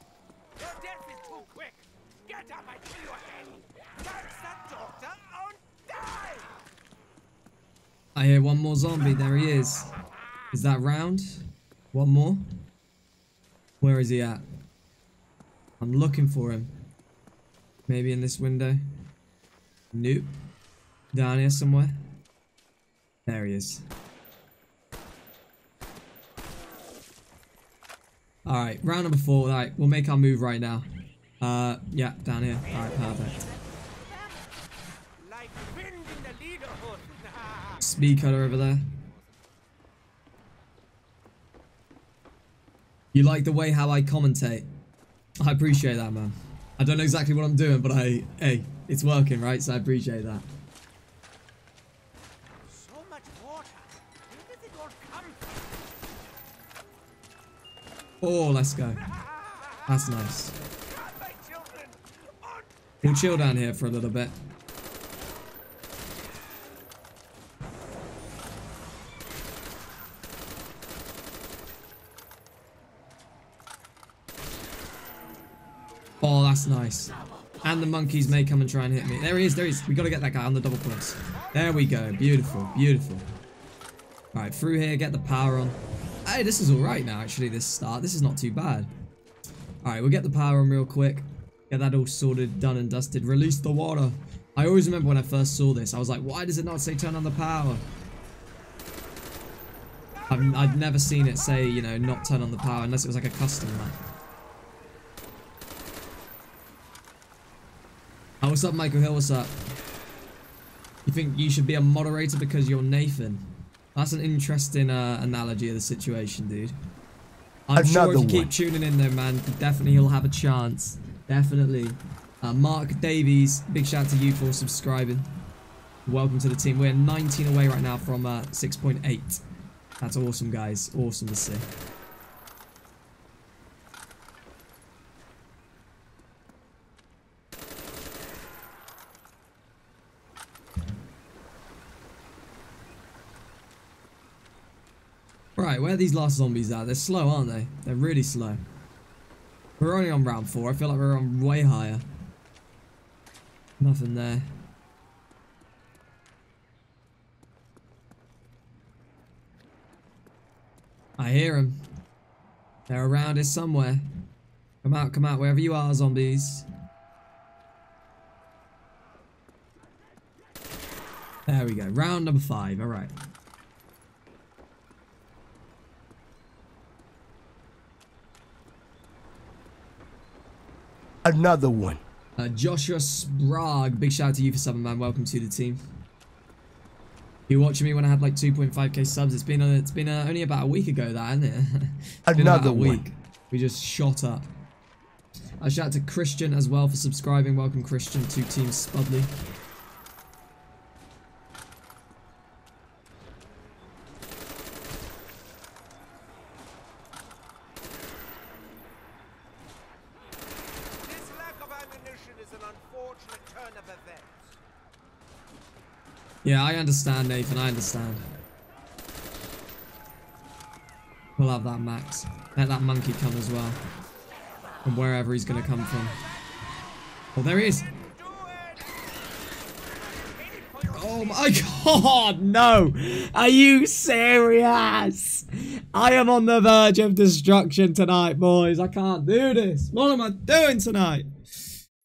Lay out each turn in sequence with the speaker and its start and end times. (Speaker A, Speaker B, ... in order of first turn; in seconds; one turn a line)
Speaker A: 0.6-6.6
Speaker B: 8.2-9.9
Speaker B: 10.5-11.4
Speaker B: 11.9-12.4
Speaker B: 13.8-14.4
Speaker B: 15.8-16.7
Speaker B: 17.9-18.8
Speaker B: 19.9-20.3
Speaker B: 21.1-21.9
Speaker B: 23.2-23.8
Speaker B: 28.4-30.9
Speaker B: 31.4-33.4
Speaker A: 33.4-34.4
Speaker A: 35.2-37.8
Speaker B: 37.8-38.9
Speaker B: 43.1-44.6
Speaker B: 45.4-50.4
Speaker A: 52.7-55.6
Speaker B: 58.2-59.0
Speaker A: 59.2-59.9
Speaker B: 59.9-60.5
Speaker A: 60.8-63.5
Speaker B: 63.0-64.3
Speaker B: 76.2-83.2
Speaker B: 84.3-88.9
Speaker B: 89.8-97.8
Speaker B: 100.3-104.0
Speaker B: 108.4-109.5
Speaker B: 111.0-116.7
Speaker B: 117.7-125.4
Speaker C: 117.8-118.5
Speaker B: 126.0-129.4
Speaker B: 130.0-131.7
Speaker B: 145.6-148.6
Speaker B: 149.8-152.0
Speaker B: 153.8-154.5
Speaker B: 161.2-161.8
Speaker B: 162.9-164.0
Speaker B: 164.8-166.7
Speaker B: 171.5-173.1
Speaker C: 181.2-182.0
Speaker B: 182.4-185.8
Speaker B: 187.5-194.5
Speaker C: 192.3-193.0
Speaker B: 195.6-199.3
Speaker A: 211.0-214.5
Speaker B: 216.4-218.2
Speaker B: 221.4-223.8
Speaker B: 224.8-226.2
Speaker B: 227.3-227.9
Speaker A: 227.9-229.1
Speaker A: 229.8-231.8
Speaker B: 230.9-241.3